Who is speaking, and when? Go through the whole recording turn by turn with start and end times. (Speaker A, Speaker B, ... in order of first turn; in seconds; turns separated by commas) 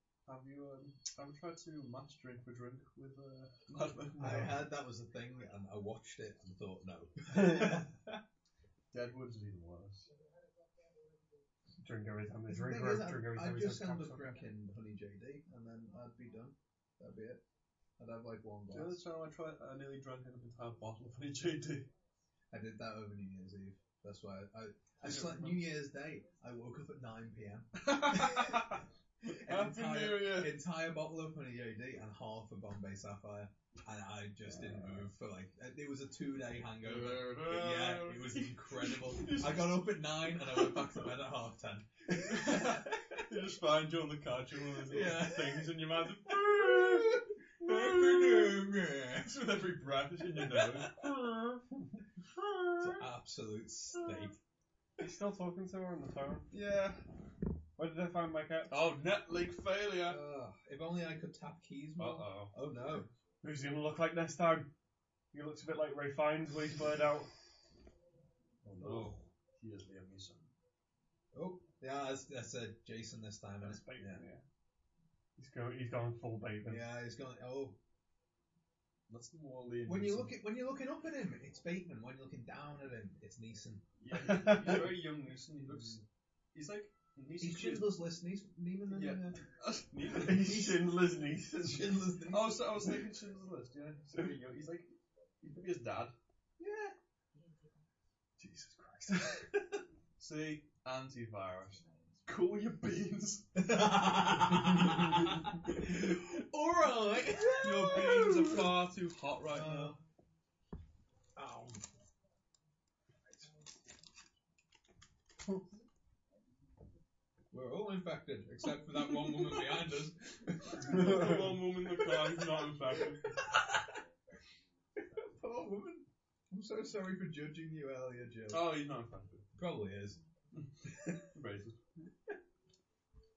Speaker A: 0.2-4.5, Speaker B: 4.2-4.6, Speaker C: 4.2-8.2, Speaker B: 7.3-7.7, Speaker A: 8.9-10.1, Speaker B: 11.8-14.4, Speaker C: 12.5-17.4, Speaker C: 18.0-19.0, Speaker A: 18.7-21.9, Speaker C: 22.5-43.3, Speaker A: 25.0-25.8, Speaker A: 27.7-30.6, Speaker A: 34.5-35.1, Speaker A: 36.8-41.1, Speaker A: 42.2-51.6, Speaker C: 44.9-49.4, Speaker C: 50.4-50.8, Speaker B: 51.7-53.0, Speaker C: 52.8-54.4, Speaker B: 55.0-56.5, Speaker A: 56.5-57.0, Speaker B: 57.8-58.7, Speaker A: 58.7-60.2, Speaker C: 60.0-63.1, Speaker A: 62.0-62.5, Speaker B: 63.4-64.7, Speaker B: 65.3-67.3, Speaker A: 68.6-70.5, Speaker C: 68.8-69.2, Speaker C: 71.3-74.2, Speaker B: 73.6-74.4, Speaker B: 75.4-76.9, Speaker C: 76.6-77.8, Speaker A: 79.1-80.4, Speaker C: 79.8-83.8, Speaker A: 84.0-86.0, Speaker B: 84.1-85.0, Speaker C: 85.6-86.0, Speaker A: 86.5-88.0, Speaker C: 87.4-89.4, Speaker A: 88.9-90.7, Speaker C: 90.1-90.9, Speaker B: 90.1-92.0, Speaker C: 91.6-92.8, Speaker A: 92.3-96.1, Speaker C: 96.6-97.0, Speaker B: 98.4-99.5, Speaker A: 100.2-103.7, Speaker C: 103.5-108.7, Speaker A: 104.4-105.4, Speaker A: 107.5-109.9, Speaker B: 107.9-108.6, Speaker C: 109.5-110.0, Speaker C: 111.3-111.8, Speaker C: 117.5-123.9, Speaker A: 119.2-119.7, Speaker A: 120.7-123.2, Speaker B: 120.9-121.4, Speaker C: 125.0-128.8, Speaker A: 128.5-129.5, Speaker C: 129.5-130.2, Speaker A: 130.6-131.8